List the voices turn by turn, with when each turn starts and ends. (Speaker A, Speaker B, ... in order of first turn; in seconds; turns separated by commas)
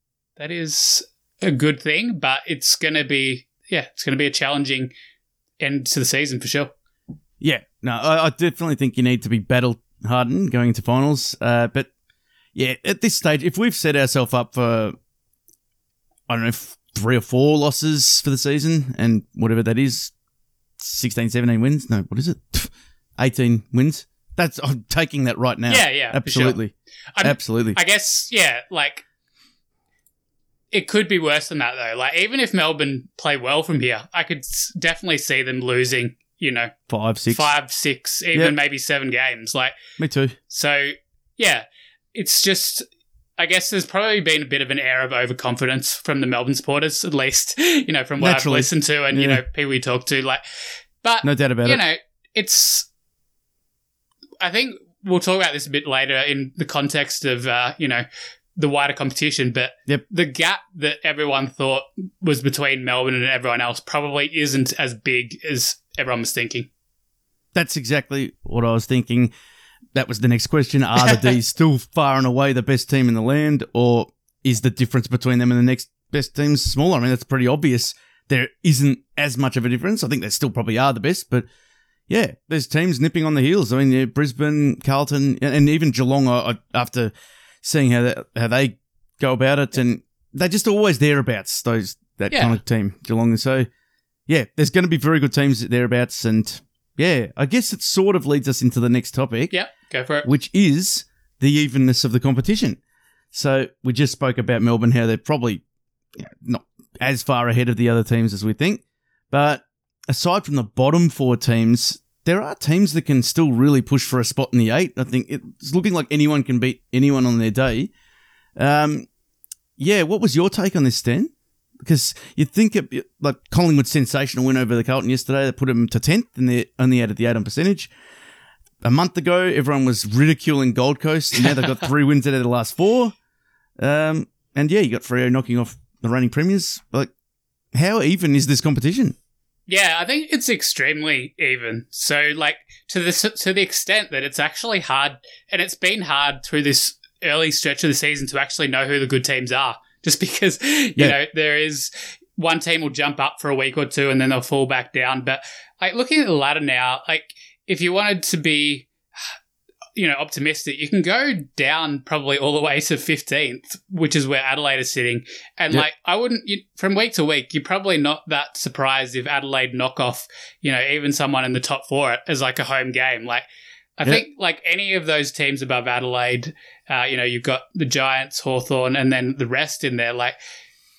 Speaker A: 0.4-4.9, Speaker A: 5.6-6.7, Speaker B: 7.4-11.9, Speaker B: 12.6-14.9, Speaker B: 16.3-20.1, Speaker B: 20.8-27.8, Speaker A: 25.7-26.6, Speaker A: 27.2-29.0, Speaker A: 30.7-36.7, Speaker B: 36.9-37.5, Speaker A: 37.3-39.7, Speaker B: 40.0-40.4, Speaker A: 40.5-42.9, Speaker A: 43.4-50.4, Speaker B: 48.2-49.4, Speaker A: 51.0-52.9, Speaker B: 51.2-51.8, Speaker A: 54.4-58.0, Speaker A: 58.6-66.7, Speaker B: 67.5-69.3, Speaker B: 70.0-81.5, Speaker B: 82.1-87.1, Speaker B: 87.6-93.7, Speaker A: 92.3-92.6, Speaker B: 94.3-99.5, Speaker A: 99.5-100.3, Speaker B: 100.2-102.8, Speaker B: 103.3-105.6, Speaker B: 106.2-117.9, Speaker B: 118.6-119.1, Speaker B: 119.8-127.9, Speaker B: 128.8-133.2, Speaker B: 133.8-137.1, Speaker B: 137.7-139.2, Speaker A: 139.7-158.9, Speaker A: 160.0-173.4, Speaker A: 174.0-180.4